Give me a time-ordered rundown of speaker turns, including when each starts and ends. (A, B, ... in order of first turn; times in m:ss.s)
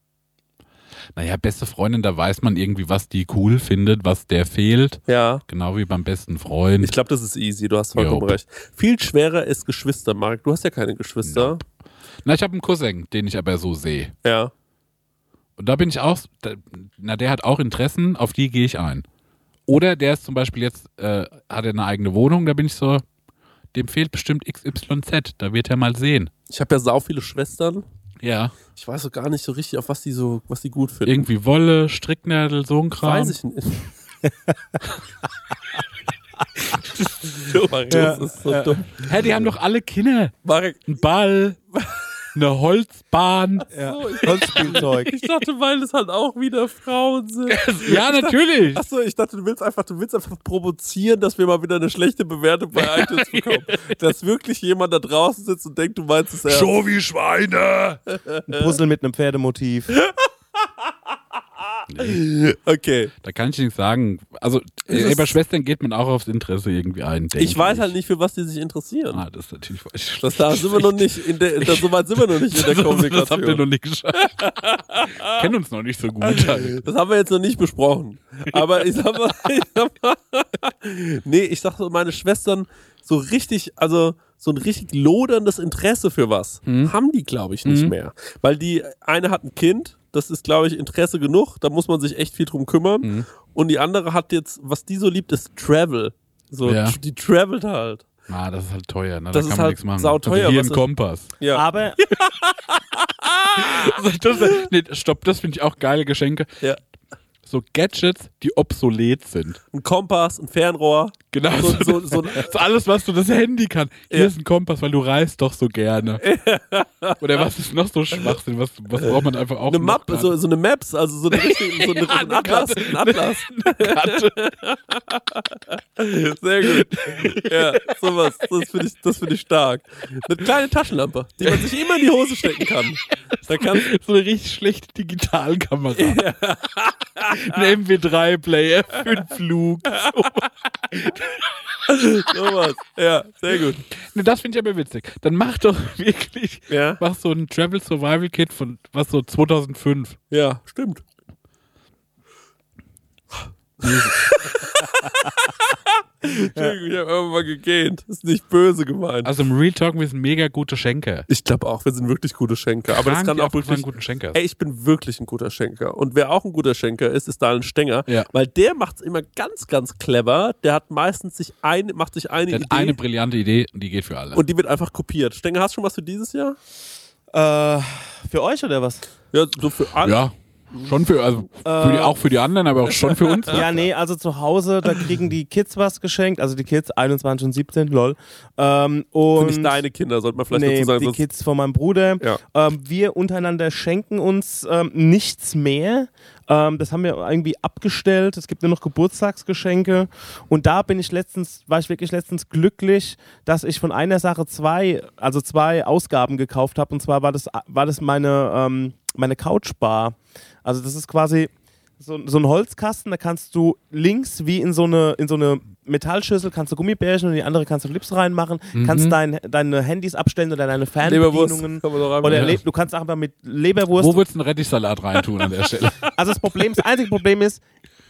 0:01.2-0:06.9 A
0:05.1-0:05.4 B
0:06.8-0:11.6 B
0:08.0-0:08.4 A
0:11.2-0:11.6 A
0:12.2-0:14.1 A
0:14.2-0:14.5 B
0:15.6-0:19.0 A
0:19.7-0:23.0 A
0:23.7-0:26.3 A
0:26.5-0:27.8 B
0:28.2-0:28.6 A
0:28.7-0:31.2 B
0:31.0-0:33.4 A
0:33.0-0:33.9 B
0:37.4-0:39.5 B
0:37.9-0:38.8 C
0:39.0-0:40.3 A
0:40.4-0:40.9 B
0:40.9-0:41.6 A
0:41.7-0:42.0 B
0:42.3-0:43.7 A
0:43.7-0:45.2 C
0:43.8-0:56.8 B
0:44.3-0:44.8 A
0:47.5-0:48.8 A
0:52.8-0:53.9 A
0:56.5-0:58.0 A
0:58.1-0:58.7 B
0:58.5-1:00.0 C
0:59.9-1:00.2 B
1:01.9-1:02.2 A
1:02.0-1:03.1 B
1:03.2-1:07.9 A
1:04.9-1:05.4 B
1:07.4-1:09.2 B
1:09.1-1:11.0 A
1:10.2-1:13.6 B
1:11.6-1:16.8 A
1:14.2-1:15.4 B
1:16.2-1:38.0 B
1:26.6-1:26.9 A
1:27.6-1:27.9 A
1:33.0-1:33.3 A
1:36.6-1:37.0 A
1:38.3-1:41.3 A
1:39.3-1:40.8 B
1:41.4-1:42.4 B
1:41.5-1:42.0 C
1:43.0-1:44.7 B
1:43.5-1:46.6 A
1:47.4-1:49.6 A
1:49.7-1:52.5 B
1:51.3-1:56.2 A
1:56.2-1:57.4 B
1:57.2-2:00.3 A
1:58.9-2:13.9 B
2:01.3-2:04.4 A
2:06.6-2:07.7 A
2:11.4-2:11.8 A
2:13.7-2:16.2 A
2:15.9-2:17.6 B
2:17.3-2:21.4 A
2:21.9-2:23.8 B
2:24.0-2:30.2 A
2:26.7-2:27.0 B
2:30.3-2:31.0 B
2:33.8-2:34.2 A
2:33.8-2:35.3 B
2:35.8-2:39.3 B
2:39.2-2:41.3 A
2:41.3-2:53.0 B
2:42.9-2:44.4 A
2:52.5-2:54.4 A
2:54.3-2:56.6 B
2:57.3-2:59.0 C
2:59.3-3:00.2 B
3:00.0-3:03.8 A
3:01.6-3:02.2 C
3:02.8-3:03.6 B
3:03.5-3:09.8 C
3:09.4-3:11.2 B
3:10.5-3:44.2 C
3:38.7-3:39.2 A
3:41.0-3:42.6 B
3:42.2-3:42.6 A
3:43.9-3:46.1 A
3:45.8-3:46.1 B
3:46.1-3:47.6 C